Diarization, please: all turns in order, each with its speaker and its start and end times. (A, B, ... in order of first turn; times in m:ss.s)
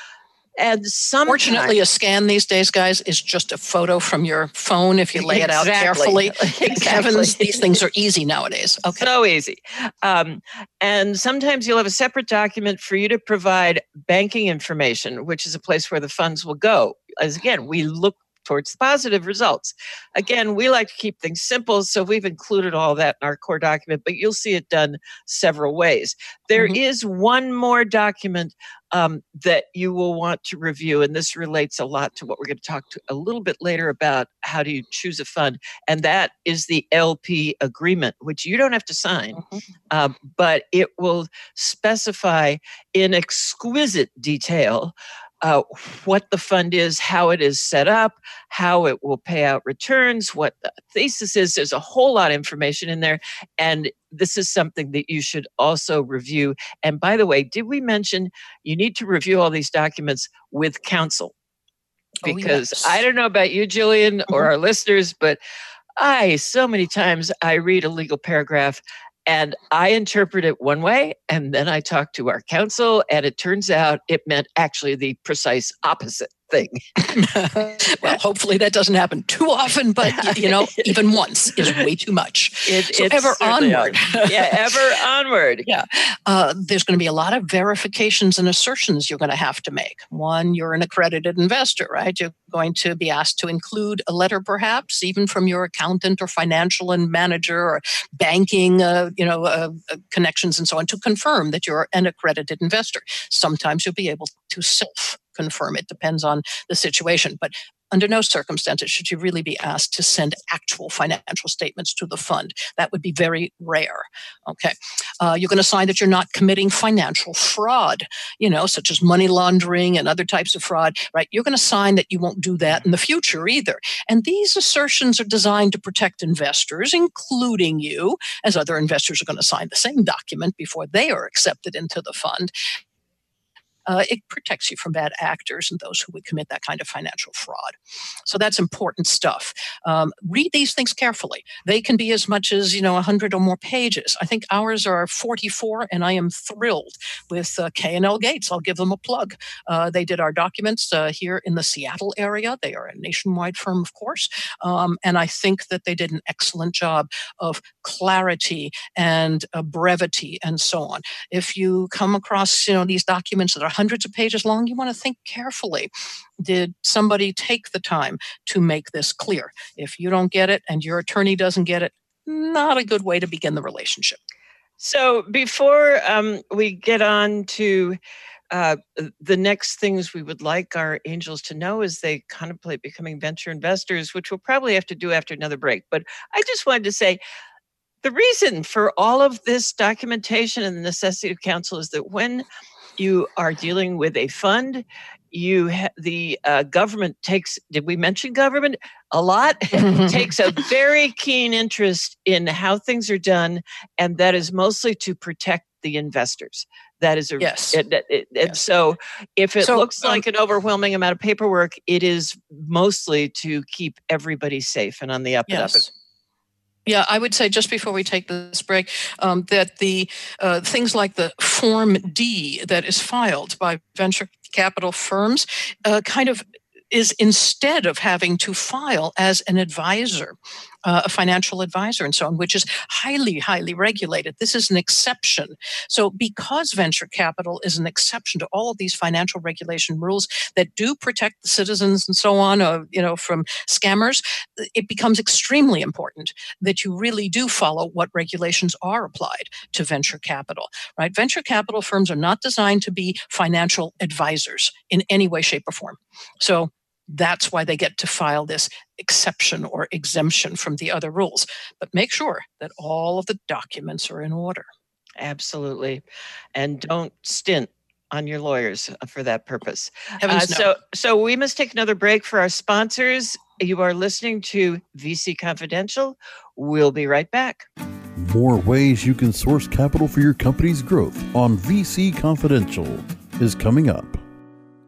0:00.6-0:01.7 A
0:01.3-0:09.1 B
0:05.1-0:07.8 A
0:09.0-1:01.3 A
1:02.2-1:03.0 B
1:02.2-1:05.4 A
1:06.0-1:16.8 A
1:17.0-1:24.7 B
1:20.0-1:21.0 A
1:22.7-1:25.7 A
1:25.6-2:12.5 B
2:13.8-2:17.7 B
2:18.3-2:54.2 B
2:54.8-2:58.0 A
2:58.5-3:07.2 A
3:08.0-3:12.4 A
3:13.0-3:35.8 A
3:19.7-3:20.2 B
3:27.4-3:27.8 B
3:29.6-3:30.2 B
3:35.5-3:35.8 B
3:36.9-4:24.6 B
4:25.2-4:26.0 A
4:26.5-4:37.7 A
4:30.2-4:30.7 B
4:38.2-4:44.2 C